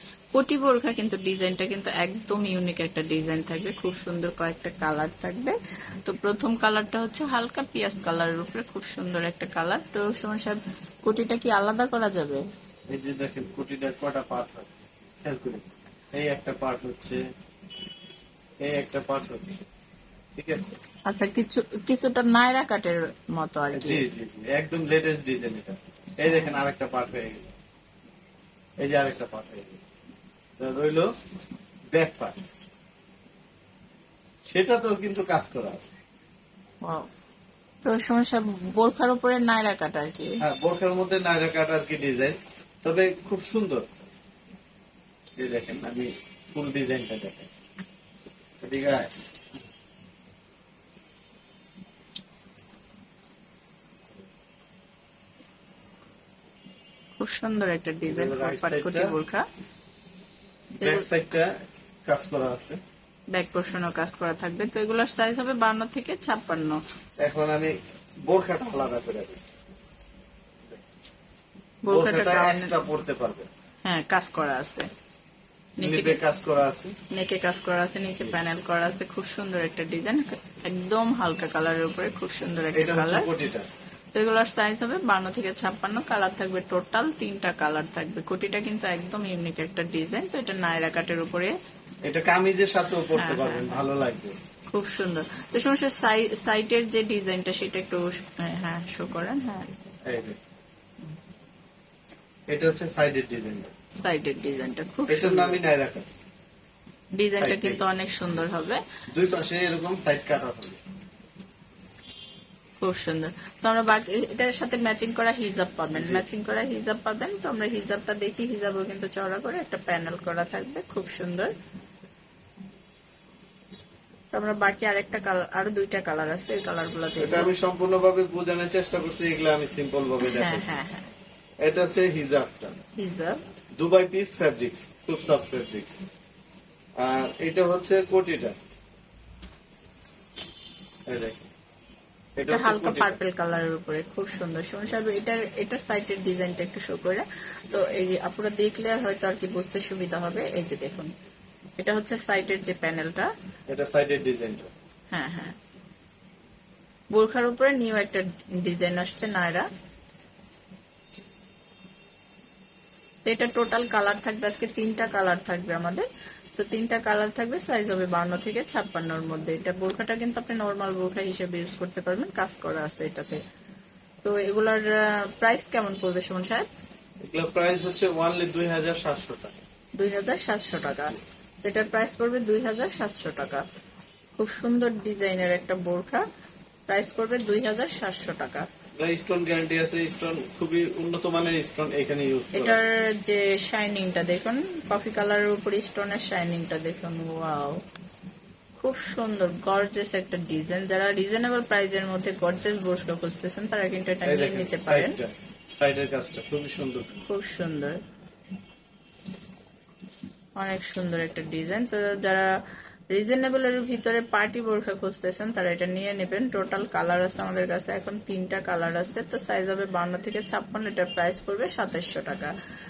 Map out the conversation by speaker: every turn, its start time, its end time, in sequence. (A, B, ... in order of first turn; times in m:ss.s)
0:00.3-0:12.4 A
0:12.9-0:17.2 B
0:18.6-0:19.6 B
0:20.3-0:20.8 B
0:21.1-0:24.0 A
0:23.7-0:27.5 B
0:28.8-0:29.8 B
0:30.6-0:31.1 B
0:31.9-0:32.4 B
0:34.5-0:35.9 B
0:37.8-0:40.4 A
0:40.4-0:44.0 B
0:45.4-0:47.5 B
0:48.6-0:49.1 B
0:57.2-0:59.5 A
0:58.1-0:59.1 B
1:00.8-1:01.5 B
1:00.8-1:01.0 A
1:02.0-1:02.8 B
1:03.3-1:06.8 A
1:07.2-1:07.7 B
1:08.3-1:09.4 B
1:11.8-1:12.7 A
1:11.9-1:13.5 B
1:13.8-1:14.9 A
1:15.8-1:16.2 A
1:15.8-1:17.0 B
1:17.1-1:23.3 A
1:22.7-1:23.7 B
1:24.1-1:31.5 A
1:32.0-1:34.4 B
1:33.1-1:33.8 A
1:34.7-1:39.7 A
1:40.0-1:40.4 B
1:42.5-1:43.7 B
1:43.9-1:45.6 A
1:45.1-1:46.1 B
1:47.2-1:48.8 A
1:47.3-1:47.8 B
1:49.1-1:50.8 B
1:52.8-2:01.5 A
1:55.9-1:56.2 B
2:04.3-2:07.5 A
2:07.2-2:10.7 B
2:10.2-2:11.1 A
2:11.6-2:12.8 B
2:13.0-2:13.4 A
2:13.8-2:16.0 B
2:17.0-2:18.6 B
2:21.1-2:21.4 B
2:22.4-2:23.2 B
2:22.5-2:31.1 A
2:31.8-2:33.3 A
2:33.7-2:34.7 B
2:35.1-2:35.6 A
2:37.1-2:39.7 A
2:43.2-2:46.0 A
2:46.6-2:53.4 A
2:54.2-2:56.7 A
2:57.2-2:59.6 B
3:00.0-3:03.6 A
3:04.4-3:06.2 A
3:06.9-3:08.6 A
3:09.0-3:13.0 B
3:12.5-3:17.8 A
3:18.8-3:25.2 A
3:24.2-3:27.2 B
3:27.2-3:28.0 A
3:30.6-3:32.5 A
3:33.1-3:42.5 A